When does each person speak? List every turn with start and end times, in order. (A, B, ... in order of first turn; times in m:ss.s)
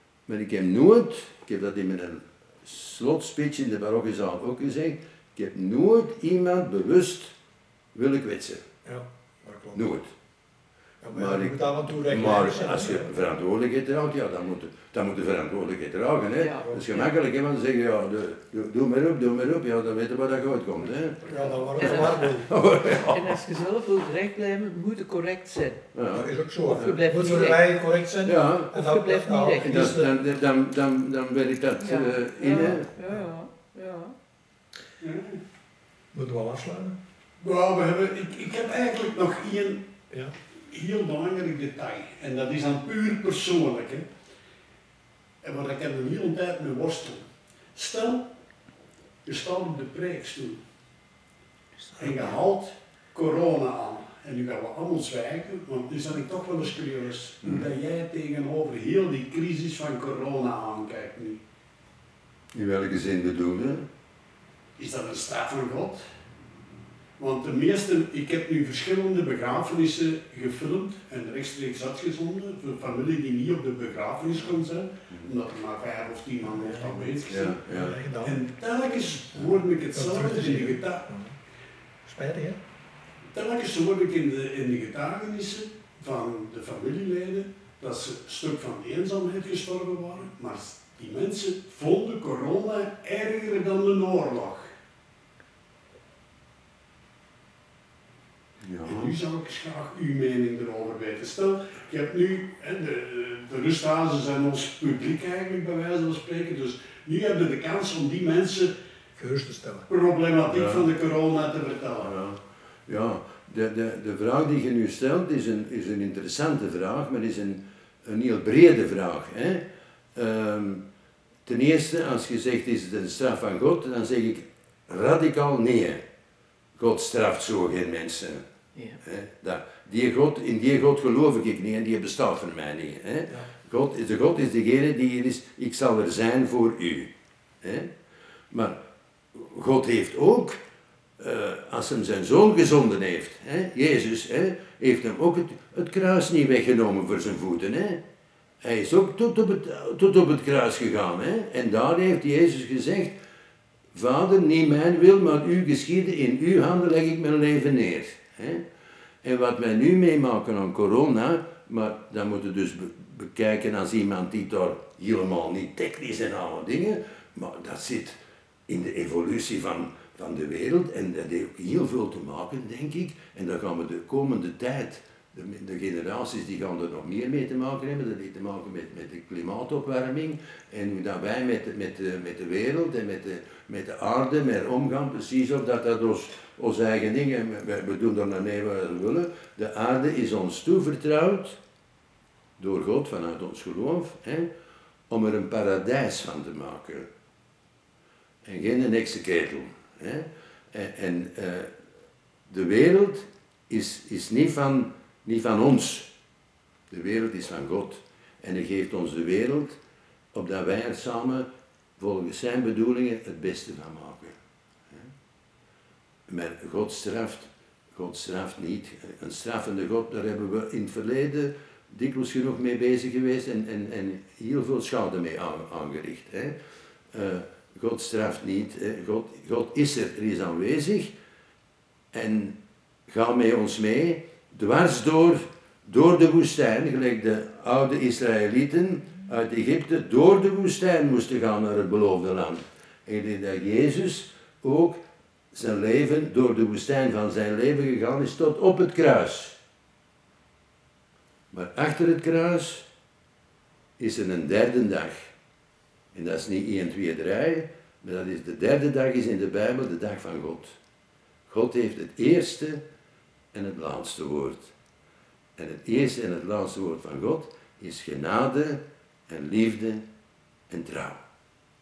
0:00.3-0:07.3 A
0:07.9-0:08.6 A
0:08.8-0:09.8 B
0:09.7-0:10.1 A
0:11.0-0:13.1 B
0:11.1-0:23.4 A
0:16.4-0:17.1 C
0:21.2-0:22.4 C
0:21.3-0:22.5 B
0:23.1-0:25.8 C
0:25.9-0:26.9 A
0:26.1-0:30.1 B
0:26.6-0:27.7 C
0:28.2-0:28.7 A
0:28.7-0:30.0 C
0:29.6-0:32.8 A
0:31.8-0:34.1 C
0:35.0-0:35.4 D
0:36.1-0:37.0 B
0:37.4-0:39.9 D
0:40.7-0:44.1 D
0:45.4-0:48.2 D
0:49.2-0:50.6 D
0:52.0-1:01.4 D
1:02.5-1:03.9 A
1:04.8-1:06.0 D
1:07.2-1:17.6 D
1:16.4-1:18.4 B
1:17.3-1:18.0 A
1:18.2-1:21.0 D
1:19.9-1:21.3 B
1:22.0-1:22.6 B
1:23.3-1:34.7 D
1:38.6-1:39.2 A
1:38.8-1:48.7 D
1:49.2-1:49.9 B
1:49.9-1:52.1 D
1:50.5-1:50.9 A
1:52.0-1:59.6 A
2:00.1-2:00.8 A
2:01.4-2:06.0 A
2:06.8-2:08.4 A
2:09.0-2:17.1 A
2:17.6-2:17.9 A
2:18.5-2:18.8 A
2:19.3-2:20.6 A
2:21.2-2:28.0 A
2:28.6-2:33.1 A
2:33.9-2:38.6 A
2:39.2-3:11.6 A
3:12.6-3:14.5 A
3:15.1-3:17.1 A
3:18.4-3:21.7 A
3:22.5-3:26.1 A
3:26.9-3:29.8 A
3:30.3-3:31.5 A
3:32.0-3:34.3 A
3:36.3-3:46.6 A
3:47.1-3:51.1 A
3:52.1-3:52.6 A
3:53.1-4:05.0 A
4:05.5-4:09.6 A
4:11.5-4:12.8 A
4:14.0-4:15.2 A
4:16.1-4:20.7 A
4:21.5-4:22.8 A
4:23.5-4:24.7 A
4:25.6-4:30.0 A
4:30.7-4:31.2 A